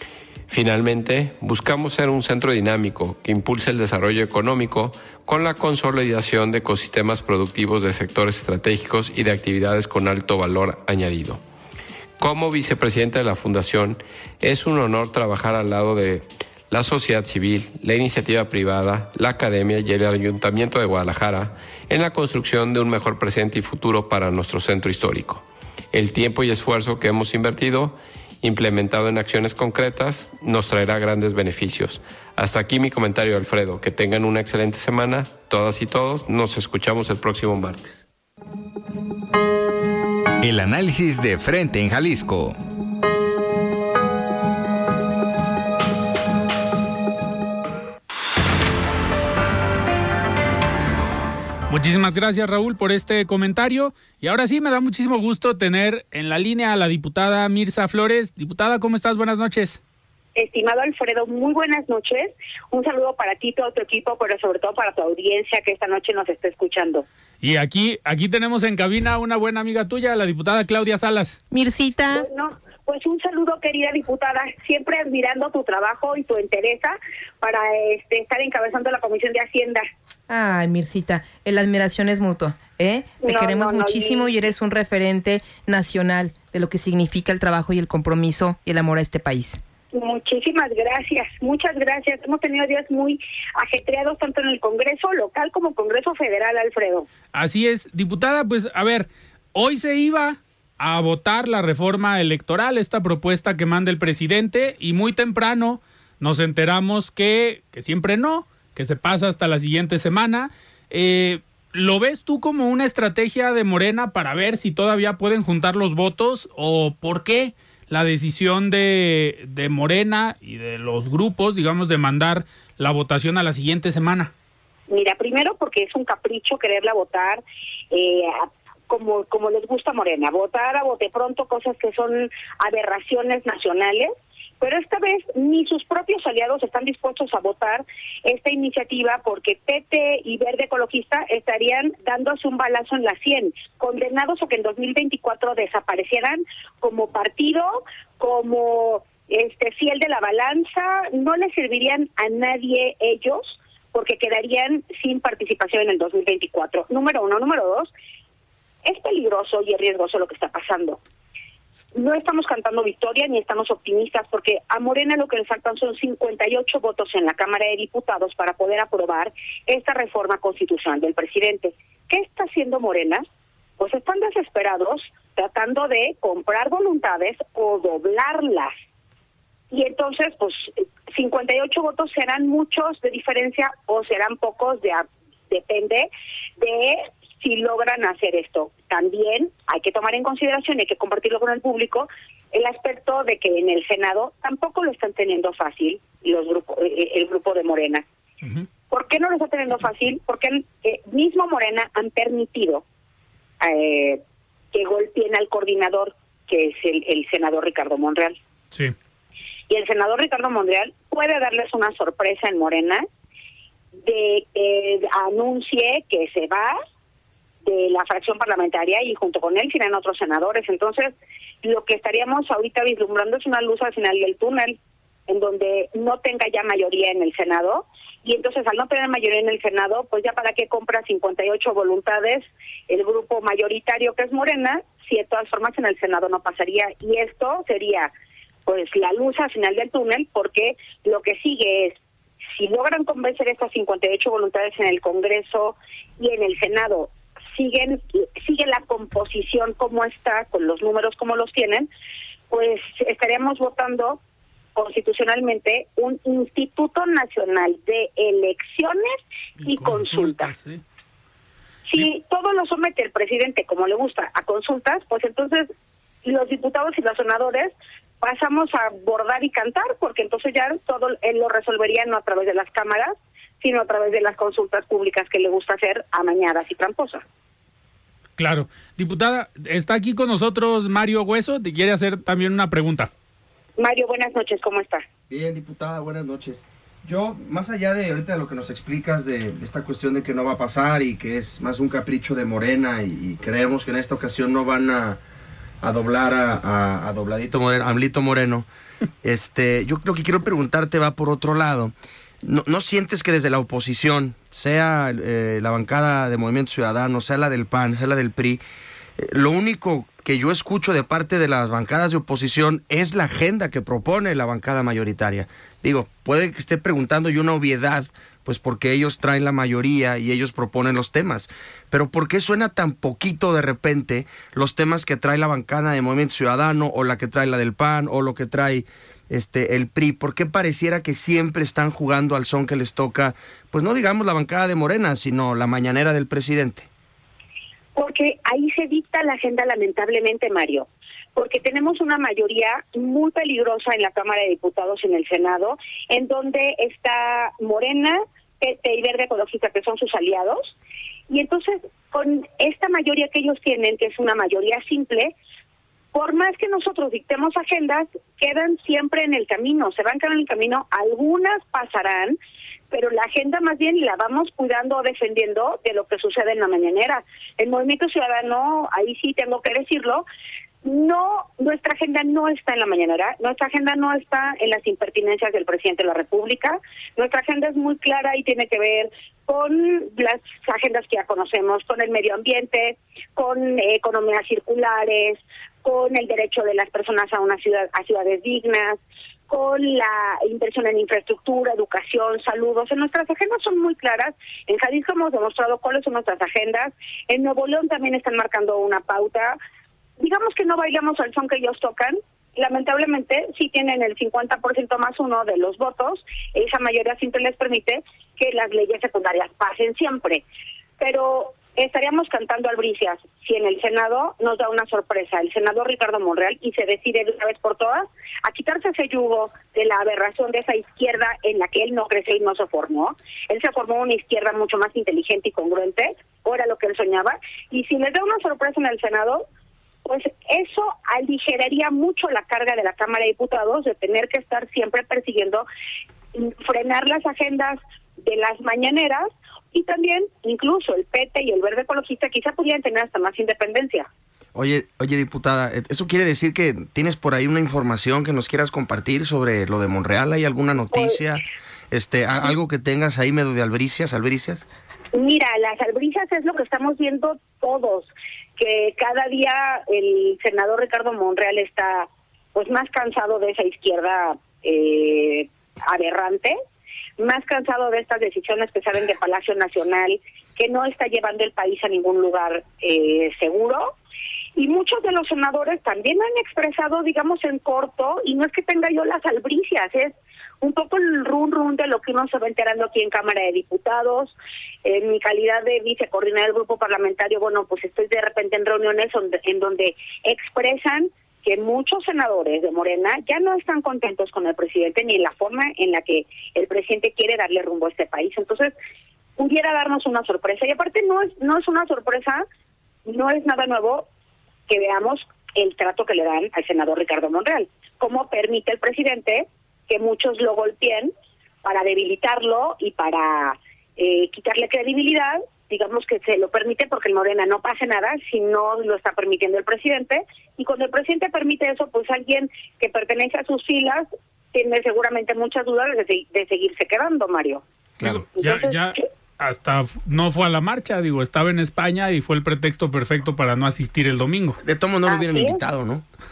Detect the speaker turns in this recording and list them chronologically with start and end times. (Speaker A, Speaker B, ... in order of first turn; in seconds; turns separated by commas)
Speaker A: 0.5-11.4, Speaker A: 12.2-38.0, Speaker B: 40.4-42.6, Speaker C: 51.7-59.8, Speaker D: 60.4-67.0, Speaker C: 67.4-71.4, Speaker E: 71.5-72.3, Speaker D: 72.1-79.8, Speaker E: 80.3-89.6, Speaker D: 83.2-84.3, Speaker D: 89.9-97.1, Speaker C: 97.3-124.3, Speaker D: 124.9-157.9, Speaker D: 158.8-161.0, Speaker D: 162.0-173.2, Speaker D: 173.8-178.7, Speaker D: 179.7-198.0, Speaker D: 198.9-202.8, Speaker D: 203.6-204.2, Speaker D: 204.7-208.4, Speaker D: 209.7-213.1, Speaker D: 214.0-216.8, Speaker D: 217.6-224.8, Speaker D: 225.3-238.1, Speaker D: 238.7-242.0, Speaker D: 242.5-251.9, Speaker D: 252.5-254.2, Speaker D: 254.7-260.5, Speaker C: 259.6-260.8, Speaker D: 261.9-265.7, Speaker D: 266.2-277.2, Speaker C: 278.4-283.1, Speaker D: 283.8-285.1, Speaker F: 285.3-295.2, Speaker F: 295.8-298.7, Speaker F: 299.2-308.6, Speaker F: 309.2-336.9, Speaker D: 337.9-350.7, Speaker D: 351.3-355.3, Speaker D: 356.1-362.4, Speaker D: 362.9-370.2, Speaker D: 370.8-399.6, Speaker D: 400.2-410.4, Speaker D: 411.0-429.4, Speaker D: 430.0-435.6, Speaker D: 436.3-444.1, Speaker F: 444.5-454.7, Speaker D: 450.9-451.2, Speaker D: 455.1-466.6, Speaker D: 467.2-473.9, Speaker D: 474.6-498.7, Speaker D: 499.4-502.4, Speaker D: 503.1-504.1, Speaker D: 504.7-511.1, Speaker D: 511.6-527.6, Speaker C: 528.0-534.6, Speaker D: 528.3-529.0, Speaker F: 534.6-536.0, Speaker D: 535.0-535.6